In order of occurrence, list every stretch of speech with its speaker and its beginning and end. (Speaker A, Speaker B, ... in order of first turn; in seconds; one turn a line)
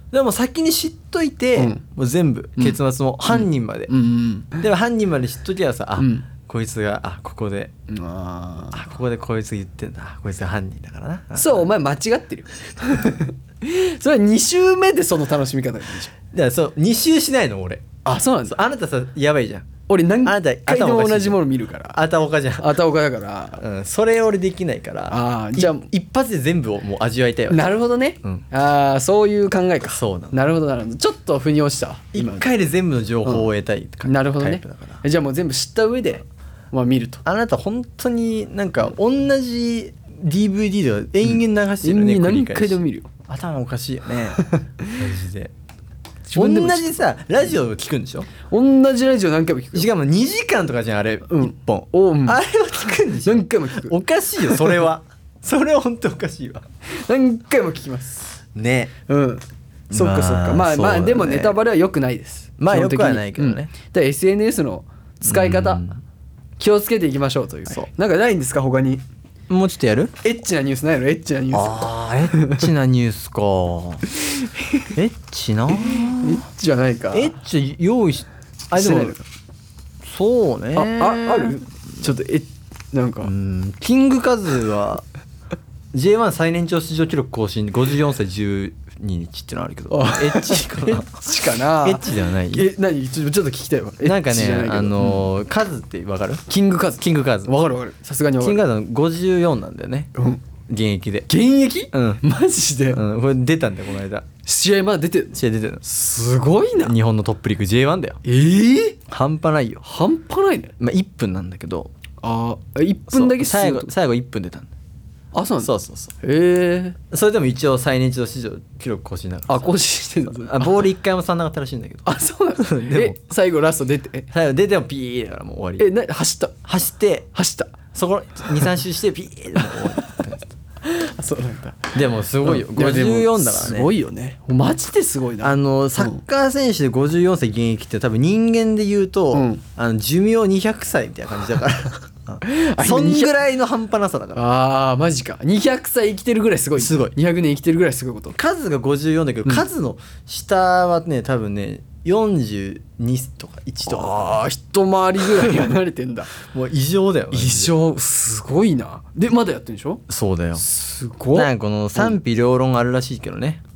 Speaker A: 0.1-3.9
Speaker B: 1.6-1.8
Speaker B: 2.6-4.6
Speaker A: 4.6-7.7
Speaker B: 6.0-6.3
Speaker B: 7.9-8.8
Speaker A: 8.7-11.7
Speaker B: 11.4-16.1
Speaker A: 16.3-17.9
Speaker B: 18.1-18.6
Speaker A: 18.5-19.7
Speaker B: 19.9-22.0
Speaker A: 20.2-21.4
Speaker A: 21.9-22.8
Speaker B: 22.6-23.6
Speaker A: 23.6-27.7
Speaker B: 25.1-25.9
Speaker B: 27.5-32.5
Speaker A: 29.9-30.4
Speaker A: 32.1-35.0
Speaker B: 34.0-37.2
Speaker A: 37.2-45.5
Speaker B: 41.3-43.1
Speaker B: 44.4-45.0
Speaker B: 46.3-46.9
Speaker A: 46.4-48.3
Speaker B: 48.4-49.9
Speaker A: 49.7-56.7
Speaker B: 51.3-52.4
Speaker B: 53.2-54.7
Speaker B: 57.0-58.3
Speaker A: 58.5-58.9
Speaker B: 59.1-65.9
Speaker A: 59.9-61.6
Speaker A: 62.6-63.7
Speaker A: 65.2-66.0
Speaker B: 66.6-69.0
Speaker A: 69.5-70.1
Speaker B: 70.2-72.7
Speaker A: 71.5-74.0
Speaker B: 74.4-74.9
Speaker A: 74.9-76.4
Speaker B: 75.7-77.3
Speaker A: 77.1-79.2
Speaker B: 78.8-79.2
Speaker A: 80.0-81.6
Speaker B: 80.8-83.3
Speaker A: 83.2-85.0
Speaker A: 85.9-91.2
Speaker B: 89.9-95.3
Speaker A: 91.8-92.7
Speaker A: 94.0-96.4
Speaker B: 96.5-98.6
Speaker A: 97.0-97.5
Speaker A: 98.4-100.1
Speaker B: 100.2-100.4
Speaker A: 100.7-101.3
Speaker B: 101.3-103.0
Speaker A: 101.9-102.2
Speaker A: 102.9-104.3
Speaker B: 104.5-107.0
Speaker A: 105.3-105.8
Speaker A: 106.8-108.2
Speaker B: 108.2-109.0
Speaker A: 109.1-109.8
Speaker B: 109.8-110.7
Speaker A: 110.8-111.9
Speaker B: 112.2-113.9
Speaker A: 113.1-114.7
Speaker B: 115.3-115.7
Speaker A: 115.6-116.1
Speaker B: 116.2-117.0
Speaker A: 117.1-119.7
Speaker B: 119.5-120.8
Speaker A: 120.3-123.2
Speaker B: 122.1-124.3
Speaker A: 124.3-125.9
Speaker B: 125.8-126.6
Speaker A: 126.7-127.3
Speaker B: 127.3-127.8
Speaker A: 127.9-130.5
Speaker B: 129.6-130.2
Speaker B: 130.8-136.2
Speaker A: 131.9-133.9
Speaker A: 135.4-144.4
Speaker B: 139.3-139.6
Speaker B: 142.4-143.3
Speaker B: 144.3-148.4
Speaker A: 146.8-147.1
Speaker A: 148.3-154.4
Speaker B: 153.8-156.3
Speaker A: 155.4-155.7
Speaker A: 156.5-157.7
Speaker B: 157.3-160.0
Speaker A: 160.1-160.6
Speaker B: 160.6-162.1
Speaker A: 161.3-163.6